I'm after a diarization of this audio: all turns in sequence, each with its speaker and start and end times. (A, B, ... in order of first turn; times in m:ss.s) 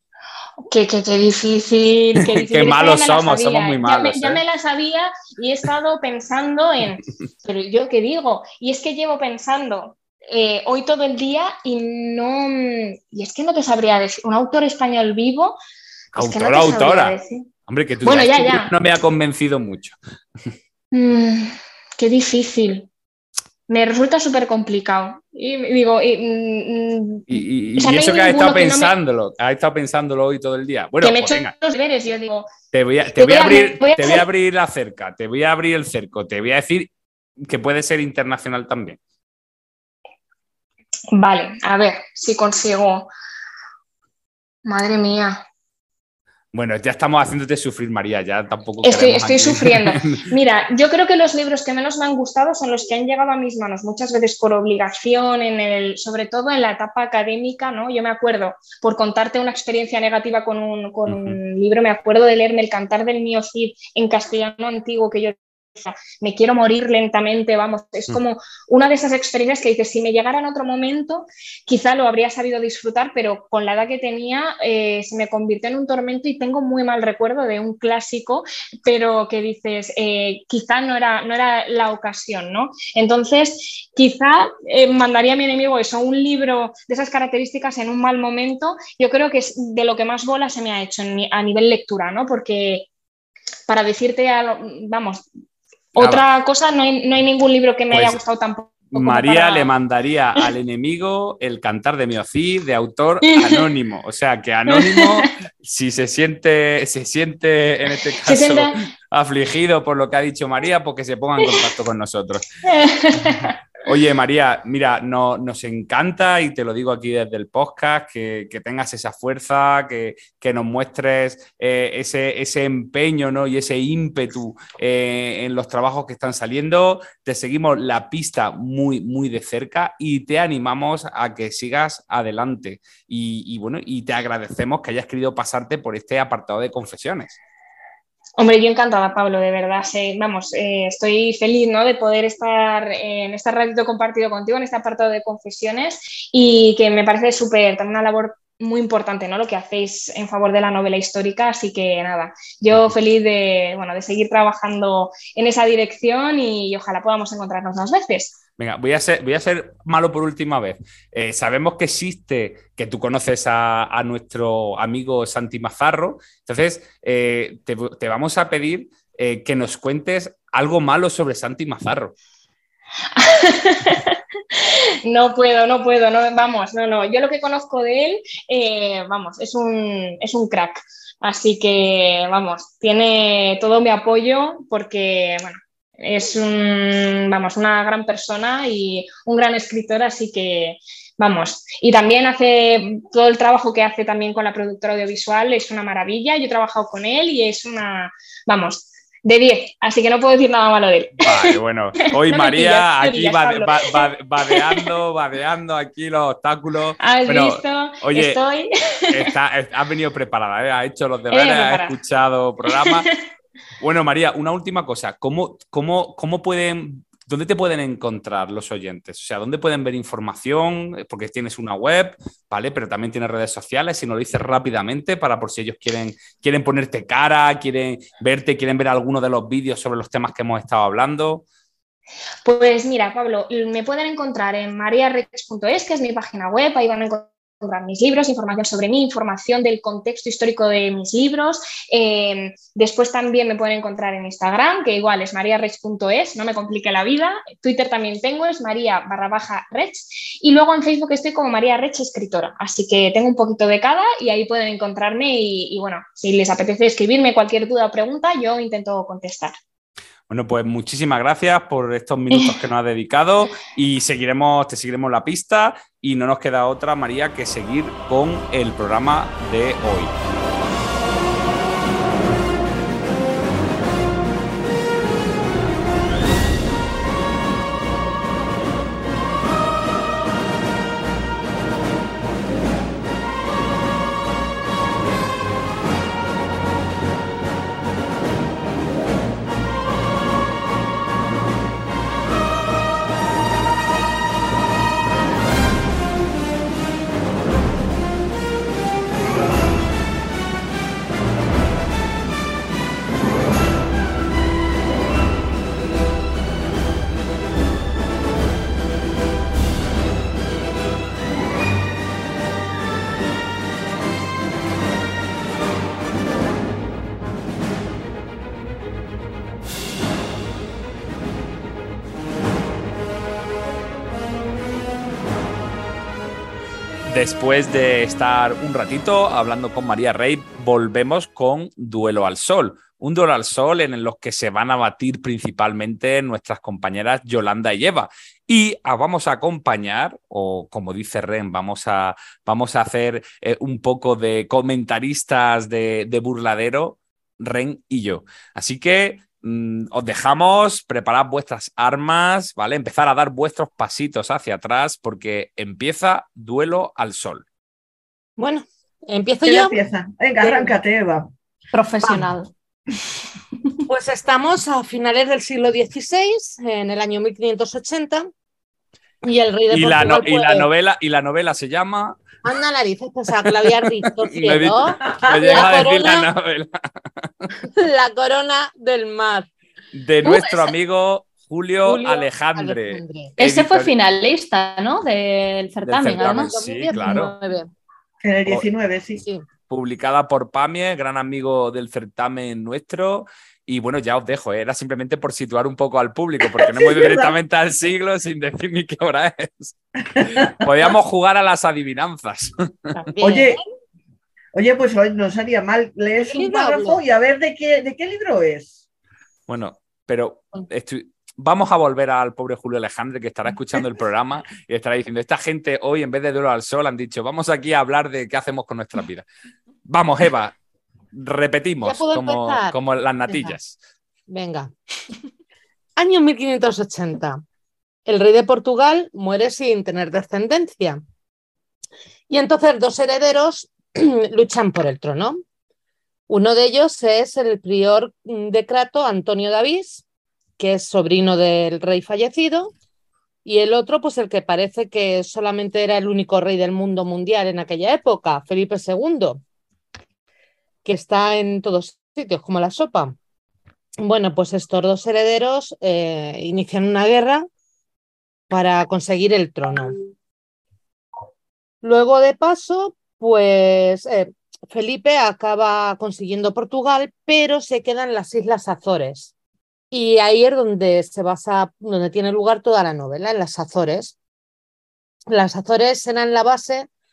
0:00.7-0:15.6 A
0:02.4-0:04.4 B
0:16.1-0:17.5 A
0:16.1-0:17.2 B
0:17.7-0:20.0 B
0:18.0-0:18.7 A
0:20.9-0:22.9 A
0:23.7-0:28.9 A
0:27.3-0:31.5 B
0:31.0-0:32.5 A
0:32.7-0:39.0 B
0:33.2-0:34.2 A
0:41.1-0:43.1 A
0:44.6-0:45.4 A
0:46.5-0:50.2 B
0:48.8-1:32.9 A
1:01.1-1:01.4 B
1:33.7-1:35.2 A
1:35.9-1:39.7 A
1:36.0-1:36.2 B
1:37.9-1:38.2 B
1:38.9-1:52.5 B
1:43.3-1:43.6 A
1:44.7-1:45.3 A
1:48.2-1:48.8 A
1:52.6-1:53.5 A
1:53.8-2:17.4 B
2:18.4-2:38.4 A
2:38.6-2:52.1 B
2:53.1-3:21.6 A
3:21.2-3:28.4 B
3:22.2-3:24.9 A
3:27.0-3:29.3 A
3:29.1-3:33.0 B
3:31.3-3:32.0 A
3:32.7-3:33.2 A
3:33.8-3:51.4 B
3:52.4-4:19.6 A
4:20.3-4:30.1 B
5:27.1-5:57.4 B
5:58.4-5:59.8 C
5:59.4-6:01.3 D
6:01.7-6:02.5 E
6:03.9-6:08.3 C
6:09.2-6:10.7 C
6:09.7-6:12.2 B
6:12.4-6:16.3 C
6:13.3-6:17.5 B
6:17.7-6:19.5 C
6:19.9-6:23.9 B
6:21.8-6:23.3 C
6:23.4-6:26.6 E
6:25.8-6:27.3 B
6:26.1-6:27.7 C
6:28.2-6:29.2 D
6:29.2-6:29.4 C
6:29.7-6:43.0 B
6:36.4-6:37.4 D
6:40.2-6:40.7 D
6:42.9-6:43.6 C
6:43.2-6:43.6 D
6:44.5-6:48.8 D
6:46.2-6:47.0 C
6:49.5-6:59.2 B
6:59.8-7:00.5 B
7:01.1-7:03.8 B
7:01.8-7:02.8 C
7:03.3-7:03.6 C
7:04.3-7:04.7 C
7:06.0-7:07.4 C
7:08.0-7:11.0 C
7:12.3-7:15.4 C
7:16.3-7:20.0 C
7:20.6-7:22.7 C
7:23.4-7:29.4 C
7:30.8-7:33.2 C
7:34.0-7:37.5 C
7:38.5-7:40.0 C
7:41.8-7:49.3 C
7:49.9-7:54.2 C
7:55.3-7:56.9 C